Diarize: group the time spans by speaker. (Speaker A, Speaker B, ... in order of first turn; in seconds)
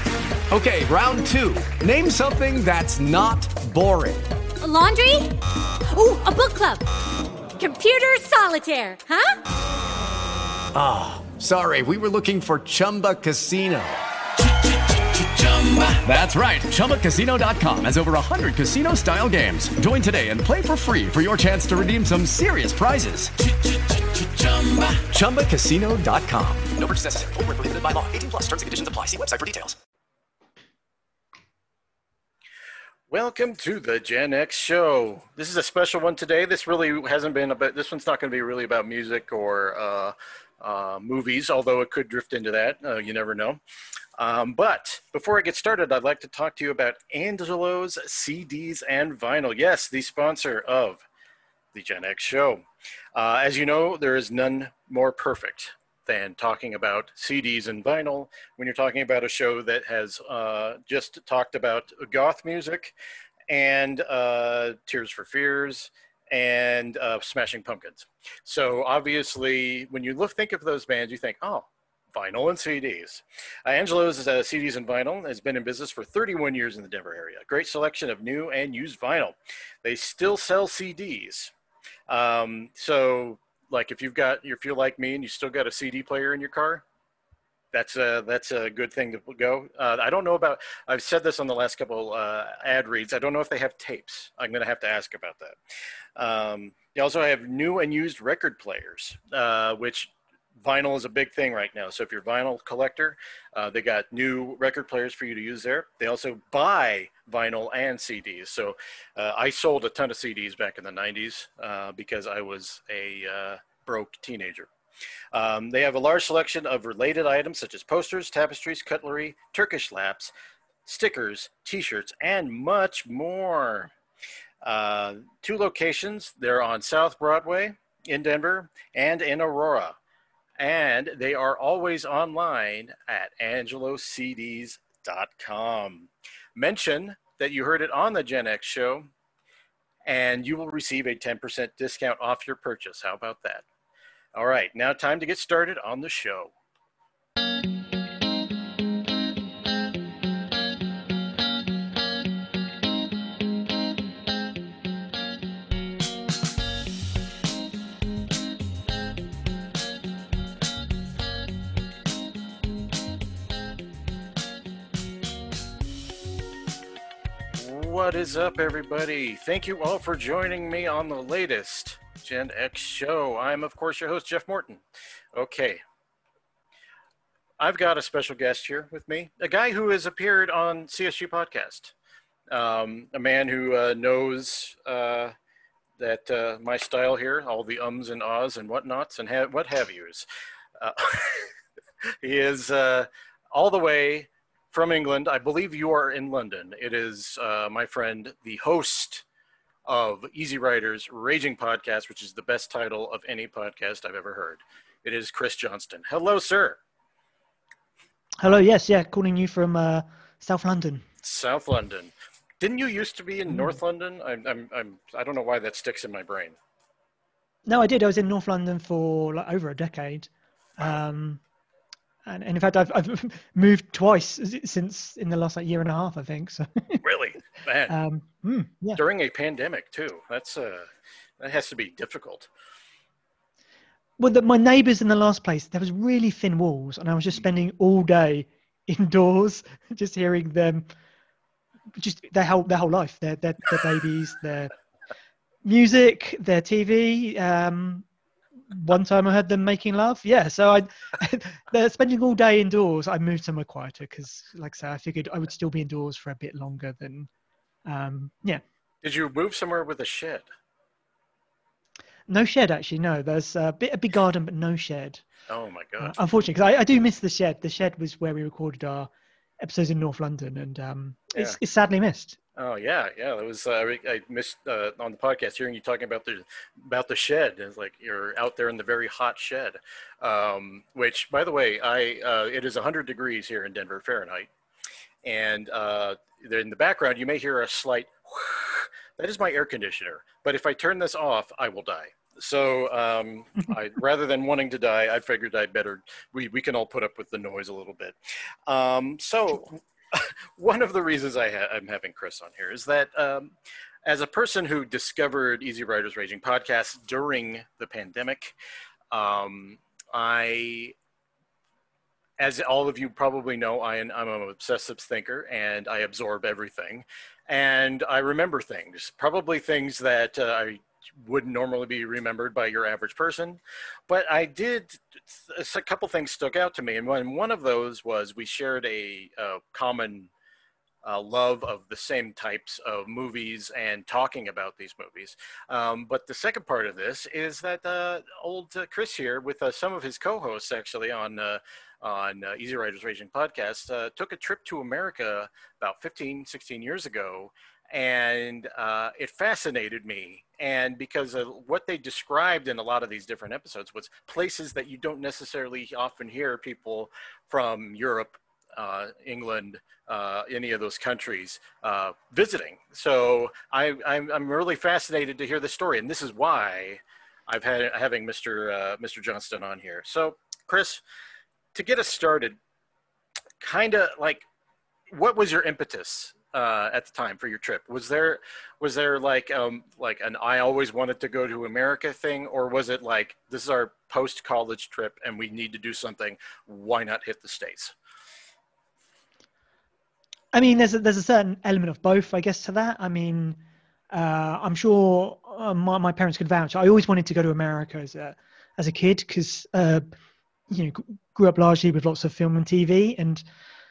Speaker A: 0.5-4.3, 10.7-14.0, 14.7-26.7
Speaker B: 4.6-5.3, 5.9-6.8, 7.6-9.4
Speaker C: 26.8-29.8
Speaker D: 33.1-43.6, 44.2-51.0, 51.7-63.0, 63.5-81.5, 82.1-86.8, 87.7-95.6, 96.2-114.7, 115.3-120.3, 120.9-123.9, 124.6-130.0, 130.6-139.1, 140.1-143.7, 144.3-146.5, 167.6-175.8, 177.6-181.9, 182.5-185.3, 186.0-191.5, 192.2-199.2, 199.9-206.8, 211.2-216.6, 227.0-228.0, 228.9-232.5, 259.0-260.5, 265.5-266.2, 272.6-284.5, 285.2-308.6, 309.1-310.9, 312.4-330.3, 331.0-371.0, 371.7-372.6, 373.6-374.4, 375.1-387.9
Speaker E: 208.4-211.1, 217.7-221.4, 222.2-227.0, 227.9-229.0, 234.2-240.9, 242.0-244.7, 245.6-248.1, 248.7-257.3, 257.9-258.6, 262.3-265.2, 266.0-272.4, 390.5-400.1, 400.7-403.4